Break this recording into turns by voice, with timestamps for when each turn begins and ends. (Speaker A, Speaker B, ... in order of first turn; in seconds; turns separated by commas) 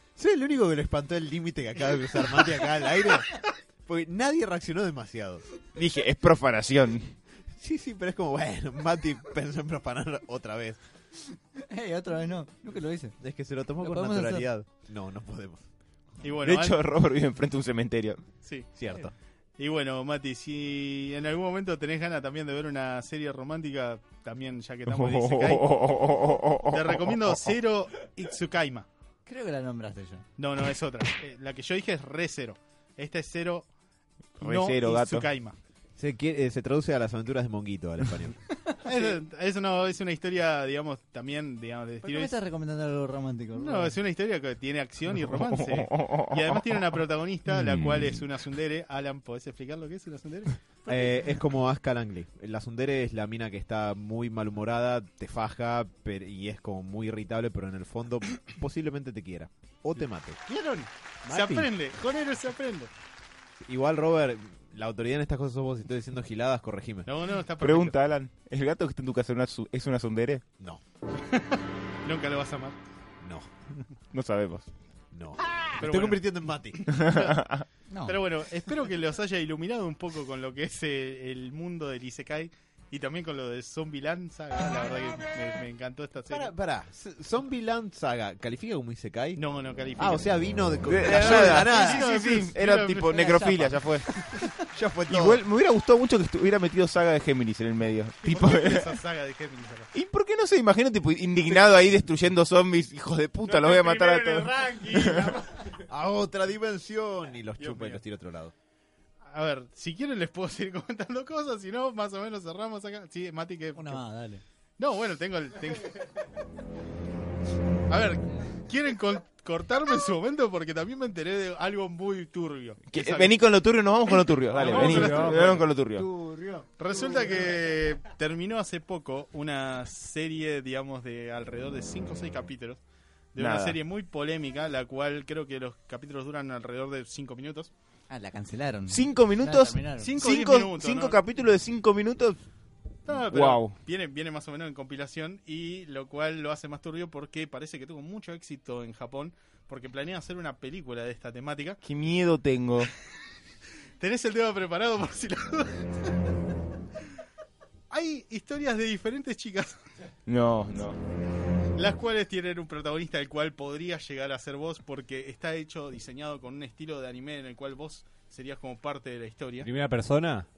Speaker A: 0.2-5.4, Speaker B: 5.8-7.2, Speaker A: 7.6-10.8, Speaker C: 11.7-13.2, Speaker A: 13.2-15.6, Speaker C: 13.8-14.5, Speaker D: 16.2-16.8, Speaker B: 16.4-18.2, Speaker D: 18.4-18.7, Speaker A: 18.8-19.1, Speaker D: 19.6-25.7, Speaker B: 24.9-27.4, Speaker D: 26.7-28.9, Speaker C: 29.3-30.2, Speaker D: 30.4-33.7, Speaker D: 34.4-35.6, Speaker B: 34.4-35.3, Speaker A: 36.0-38.4, Speaker D: 38.8-42.3, Speaker C: 42.0-44.0, Speaker D: 43.5-51.0, Speaker B: 45.1-46.9, Speaker B: 47.5-48.1, Speaker A: 50.9-60.4, Speaker D: 60.5-62.9, Speaker E: 61.3-61.7, Speaker A: 63.6-67.1, Speaker D: 67.1-68.0, Speaker B: 67.6-70.4, Speaker D: 71.3-72.8, Speaker A: 73.2-73.5, Speaker B: 74.1-74.7, Speaker A: 75.1-76.8, Speaker D: 75.8-77.4, Speaker B: 76.9-77.7, Speaker C: 77.9-78.2, Speaker D: 78.1-86.5, Speaker A: 86.3-89.4, Speaker D: 89.4-90.3, Speaker A: 90.0-92.1, Speaker B: 90.9-94.1, Speaker D: 91.0-93.3, Speaker C: 93.1-93.8, Speaker A: 94.7-95.4, Speaker B: 95.1-99.0, Speaker D: 98.2-99.9, Speaker B: 99.9-105.3, Speaker E: 103.4-105.8, Speaker A: 105.9-108.5, Speaker D: 107.6-108.0, Speaker D: 109.2-114.0, Speaker C: 113.8-114.4, Speaker D: 114.8-116.0, Speaker D: 117.9-123.4, Speaker B: 122.9-126.1, Speaker D: 124.0-125.7, Speaker E: 124.6-125.5, Speaker C: 126.0-126.7, Speaker D: 126.8-132.8, Speaker D: 133.3-137.7, Speaker B: 133.4-133.8, Speaker C: 138.1-140.1, Speaker B: 138.9-142.4, Speaker D: 140.0-141.2, Speaker D: 143.1-151.8, Speaker B: 143.1-143.7, Speaker B: 151.8-152.9, Speaker D: 154.0-155.8, Speaker D: 157.9-159.8, Speaker B: 160.3-161.0, Speaker D: 161.8-169.7, Speaker E: 169.6-170.5